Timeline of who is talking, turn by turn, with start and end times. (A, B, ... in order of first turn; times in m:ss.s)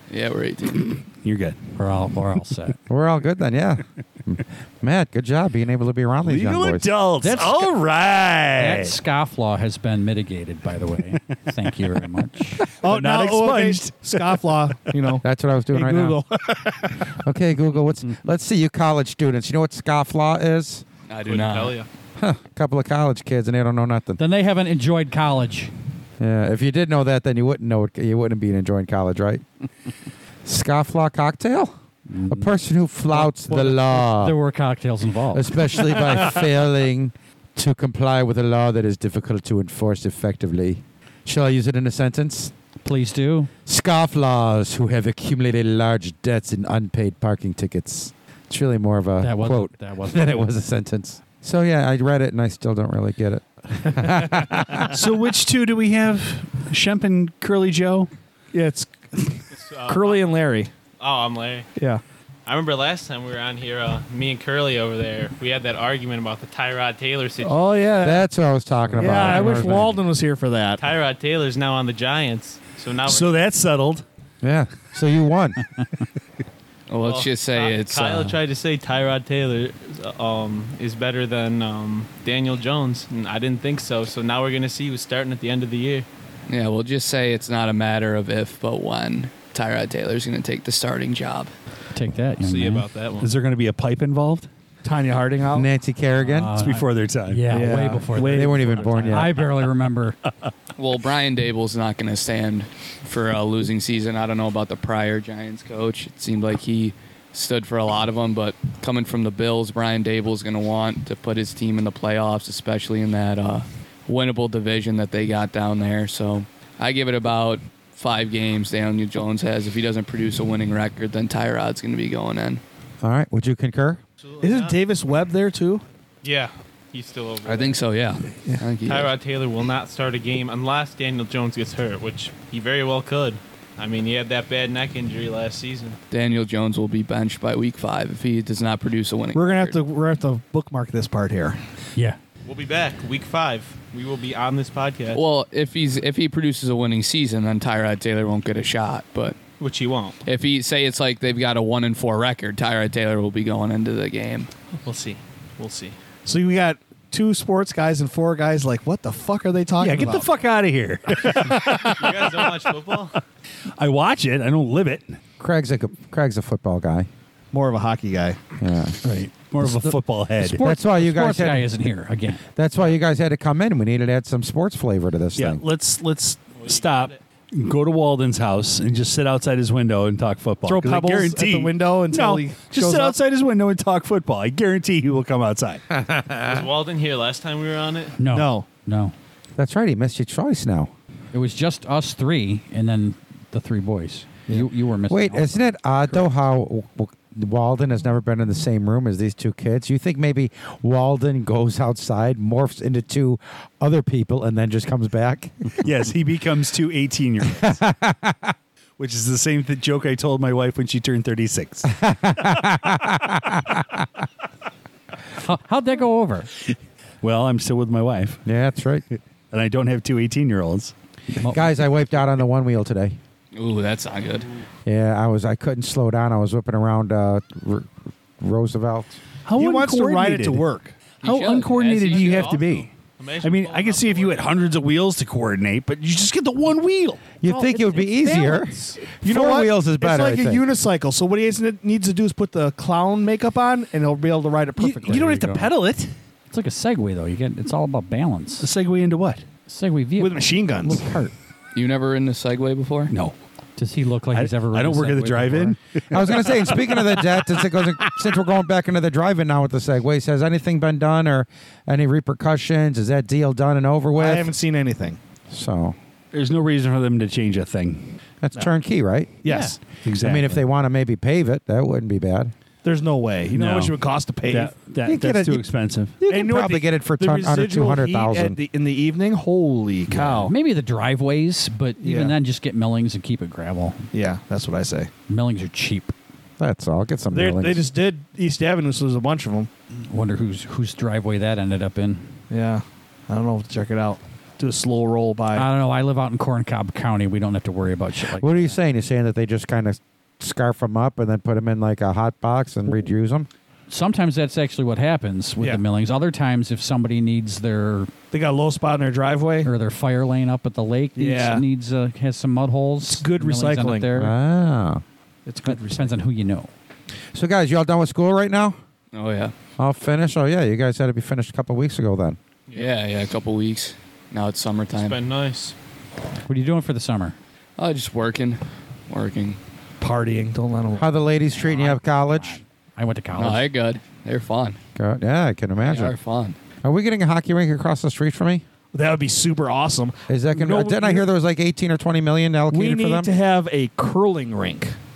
0:00.1-0:01.0 A
0:01.2-0:01.6 B
0:01.8-0:02.8 C
0:02.9-0:06.9 D
0:06.2-0:08.9 B
0:07.2-0:07.7 C
0:08.5-0:12.6 C
0:12.6-0:14.5 B
0:12.8-0:16.9 E
0:15.2-0:16.2 D
0:17.2-0:20.8 D
0:21.1-0:21.8 A
0:21.2-0:21.9 F
0:22.2-0:24.2 D
0:24.2-0:25.7 C
0:26.2-0:29.4 D
0:30.4-0:31.7 D
0:32.1-0:32.5 C
0:32.3-0:34.4 D
0:33.1-0:36.0 C
0:35.3-0:42.5 D
0:42.8-0:43.5 C
0:43.6-0:54.9 D
0:49.2-0:50.4 C
0:54.8-0:58.1 B
0:58.5-1:00.7 E
0:59.5-1:00.3 F
1:01.0-1:01.7 F
1:01.8-1:02.0 E
1:02.4-1:07.7 F
1:07.4-1:08.2 E
1:08.0-1:09.9 D
1:08.9-1:09.9 C
1:09.0-1:10.8 E
1:10.8-1:13.4 F
1:13.0-1:14.0 B
1:14.4-1:15.6 D
1:16.9-1:18.4 A
1:17.0-1:26.1 F
1:26.5-1:31.5 A
1:31.9-1:32.8 C
1:32.4-1:33.3 F
1:33.2-1:34.5 B
1:34.8-1:35.7 E
1:35.5-1:36.6 D
1:36.2-1:40.2 C
1:36.6-1:37.8 B
1:37.5-1:39.2 E
1:38.1-1:39.3 D
1:40.8-2:02.6 A
2:03.0-2:04.0 D
2:04.2-2:04.8 F
2:04.4-2:05.8 E
2:06.2-2:07.8 F
2:07.4-2:09.1 A
2:08.8-2:16.0 F
2:16.1-2:19.8 A
2:19.3-2:21.6 E
2:22.4-2:25.2 F
2:25.1-2:29.4 A
2:29.6-2:30.2 F
2:30.2-2:34.5 A
2:34.8-2:36.0 F
2:36.2-2:40.3 E
2:39.8-2:42.6 B
2:41.3-2:41.7 E
2:41.9-2:43.2 F
2:43.8-2:45.2 B
2:45.4-2:47.1 D
2:47.5-2:48.4 E
2:48.6-2:49.0 D
2:49.0-2:52.4 C
2:49.4-2:50.6 B
2:50.6-2:51.7 D
2:52.6-2:55.6 D
2:55.4-3:05.8 B
2:56.5-2:57.2 F
3:00.6-3:03.2 E
3:06.1-3:06.6 D
3:06.4-3:08.2 F
3:08.2-3:09.1 C
3:08.3-3:08.6 E
3:09.6-3:10.9 D
3:11.3-3:15.7 C
3:15.1-3:25.8 D
3:25.8-3:27.8 B
3:27.6-3:28.5 D
3:29.0-3:31.9 B
3:32.0-3:34.0 D
3:35.4-3:36.5 C
3:37.2-3:38.4 B
3:38.4-3:39.0 D
3:39.5-3:40.9 B
3:41.4-3:41.7 C
3:41.4-3:43.2 D
3:43.5-3:44.5 A
3:44.8-3:49.2 D
3:49.4-3:50.6 B
3:49.5-3:51.0 E
3:51.2-3:52.6 A
3:51.2-3:57.4 B
3:51.8-3:54.7 F
3:57.4-4:00.6 D
3:57.7-3:58.4 C
3:58.3-4:05.4 E
4:04.8-4:06.1 B
4:05.0-4:05.7 C
4:06.5-4:08.7 C
4:08.6-4:09.4 B
4:09.7-4:11.3 C
4:10.2-4:11.1 E
4:11.7-4:13.1 A
4:13.1-4:13.4 B
4:13.8-4:15.8 C
4:14.3-4:17.2 B
4:16.1-4:24.5 D
4:24.1-4:25.2 E
4:25.5-4:26.0 D
4:26.3-4:28.2 B
4:28.4-4:29.4 D
4:29.4-4:29.8 E
4:29.4-4:29.8 C
4:29.9-4:30.6 B
4:30.2-4:32.5 D
4:32.8-4:34.8 E
4:33.5-4:36.2 B
4:35.0-4:35.7 D
4:36.2-4:38.6 D
4:36.2-4:40.5 E
4:40.1-4:44.1 C
4:42.0-4:42.3 E
4:44.1-4:45.1 E
4:45.3-4:46.1 C
4:46.6-4:47.8 D
4:47.3-4:49.7 E
4:50.1-4:52.3 C
4:52.5-4:55.7 E
4:55.5-4:58.8 C
4:58.4-5:03.5 D
5:03.9-5:08.1 C
5:08.3-5:09.7 E
5:09.6-5:14.3 C
5:11.2-5:11.6 E
5:13.1-5:14.2 E
5:14.1-5:15.0 D
5:15.4-5:16.2 E
5:15.6-5:16.7 C
5:17.3-5:18.8 D
5:19.1-5:19.5 A
5:19.8-5:22.4 D
5:22.7-5:25.2 A
5:24.9-5:25.7 F
5:26.4-5:27.4 C
5:27.8-5:29.6 A
5:30.0-5:31.1 E
5:31.0-5:32.6 D
5:31.5-5:33.7 C
5:33.4-5:34.8 A
5:35.0-5:36.1 D
5:35.8-5:36.6 A
5:36.8-5:38.6 D
5:38.9-5:41.3 E
5:40.3-5:43.3 D
5:42.7-5:44.9 E